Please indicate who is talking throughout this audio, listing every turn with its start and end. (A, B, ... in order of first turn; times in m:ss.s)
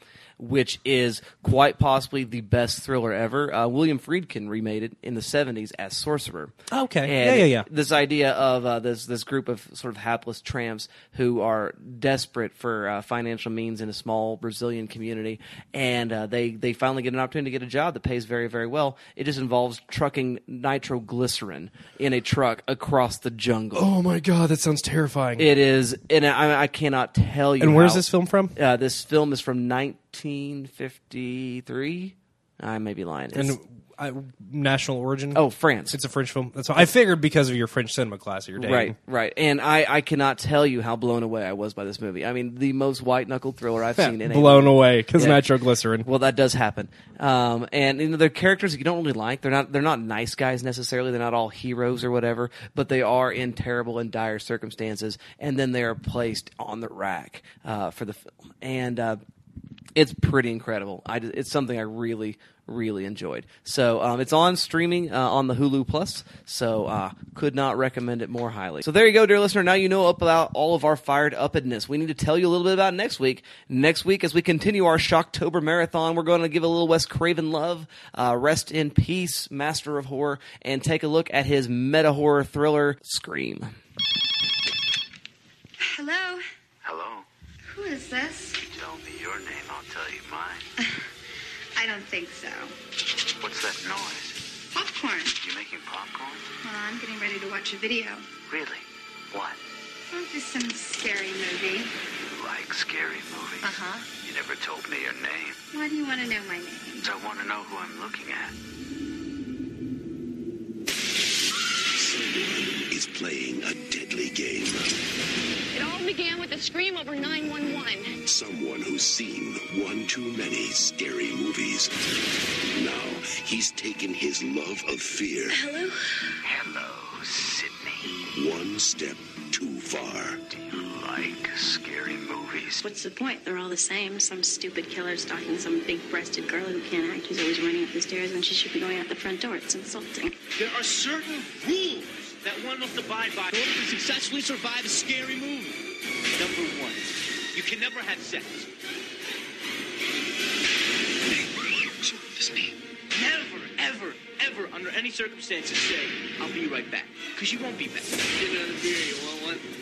0:00.4-0:23.9 A
0:06.7-0:07.7 B
0:23.8-0:25.5 B
0:25.4-0:28.0 A
0:27.6-0:28.6 B
0:28.6-0:33.6 A
0:33.3-0:39.0 B
0:35.4-0:36.0 A
0:38.6-0:45.4 A
0:44.0-0:46.1 B
0:46.0-0:59.2 A
1:00.0-1:23.8 A
1:25.8-1:26.4 C
1:26.8-1:27.3 D
1:27.7-1:28.6 C
1:28.7-1:30.7 D
1:30.8-1:31.0 C
1:31.8-1:32.7 C
1:33.4-1:34.4 D
1:34.7-1:35.4 C
1:35.4-1:36.5 D
1:36.6-1:38.3 C
1:38.5-1:39.6 D
1:40.1-1:41.9 C
1:42.1-1:45.6 D
1:43.6-1:44.1 C
1:45.7-1:47.1 C
1:47.0-1:48.6 D
1:51.9-1:54.9 E
1:55.7-1:58.2 F
1:58.2-2:01.9 E
2:02.7-2:05.6 E
2:05.5-2:06.0 G
2:06.4-2:08.2 D
2:08.3-2:10.4 E
2:10.5-2:12.8 D
2:12.8-2:20.4 G
2:20.6-2:25.8 H
2:26.4-2:28.7 H
2:31.5-2:32.7 D
2:33.1-2:39.6 H